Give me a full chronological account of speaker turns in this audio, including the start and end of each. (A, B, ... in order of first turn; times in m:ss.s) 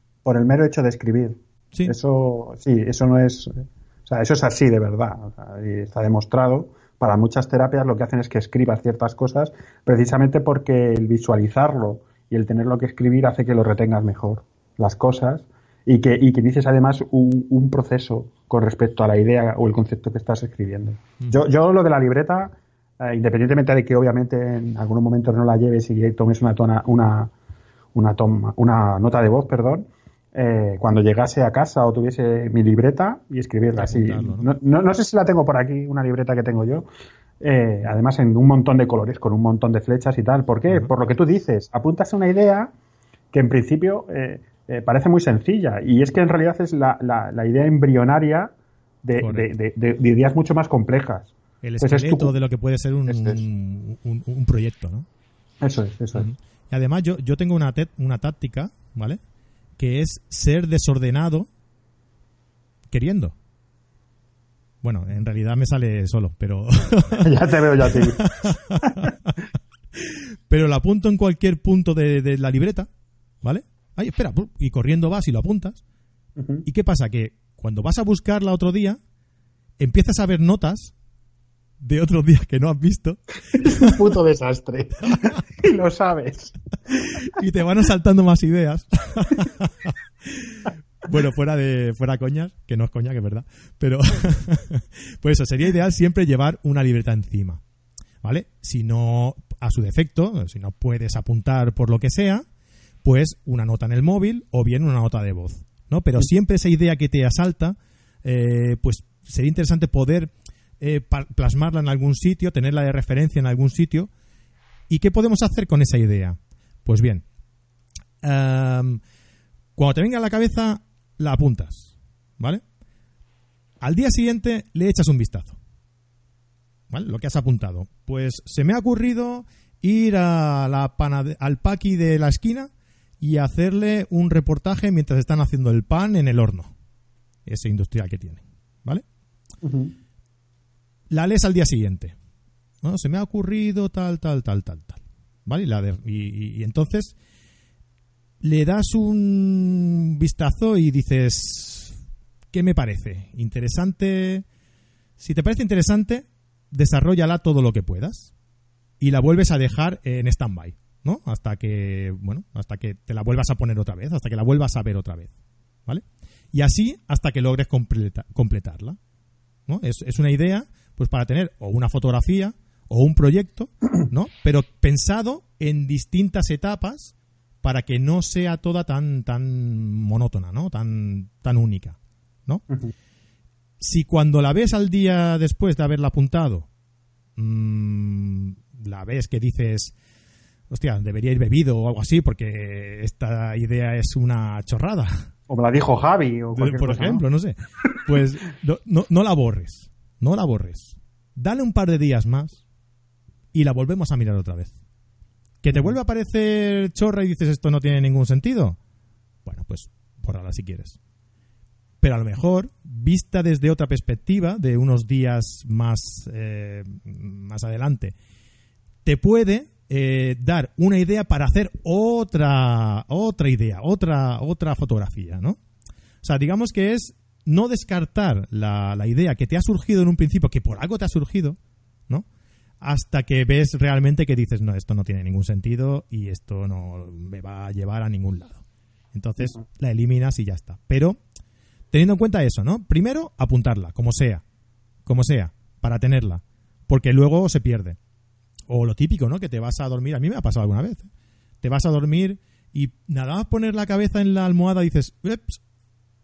0:00.2-0:27.3 A
0:28.0-0:36.9 A
0:33.7-0:34.5 B
0:37.4-0:42.7 A
0:43.3-0:48.5 A
0:49.0-0:52.3 A
0:49.2-0:49.5 B
0:51.6-0:55.1 B
0:53.1-0:53.4 A
0:55.6-0:56.3 A
0:56.1-0:59.2 B
0:59.8-1:01.5 B
1:02.9-1:03.4 B
1:04.8-1:07.3 B
1:07.2-1:09.1 A
1:07.8-1:09.4 B
1:09.9-1:12.9 B
1:13.4-1:15.8 B
1:16.4-1:16.6 A
1:16.6-1:19.0 B
1:19.8-1:20.9 B
1:21.8-1:24.0 B
1:23.5-1:27.2 A
1:27.2-1:37.6 B
1:38.2-1:42.4 B
1:43.0-1:54.1 B
1:54.9-1:57.2 B
1:58.2-1:59.0 B
1:59.8-2:02.6 B
2:03.8-2:05.6 B
2:06.9-2:12.7 B
2:13.2-2:16.7 B
2:17.5-2:19.0 B
2:19.6-2:19.9 A
2:21.1-2:22.1 B
2:22.8-2:27.1 B
2:28.4-2:32.0 B
2:32.5-2:34.4 B
2:35.2-2:38.3 B
2:39.0-2:45.3 B
2:45.9-2:49.0 B
2:49.7-3:02.6 B
3:03.8-3:06.7 B
3:07.4-3:09.9 B
3:10.7-3:15.3 B
3:15.5-3:17.2 A
3:16.6-3:22.6 B
3:23.5-3:24.7 B
3:25.6-3:28.8 B
3:25.7-3:26.0 A
3:29.4-3:31.0 B
3:32.0-3:38.1 B
3:39.0-3:45.6 B
3:46.2-3:52.3 B
3:52.8-4:01.2 B
4:01.9-4:04.4 B
4:05.1-4:08.0 B
4:08.7-4:11.1 B
4:11.6-4:15.6 B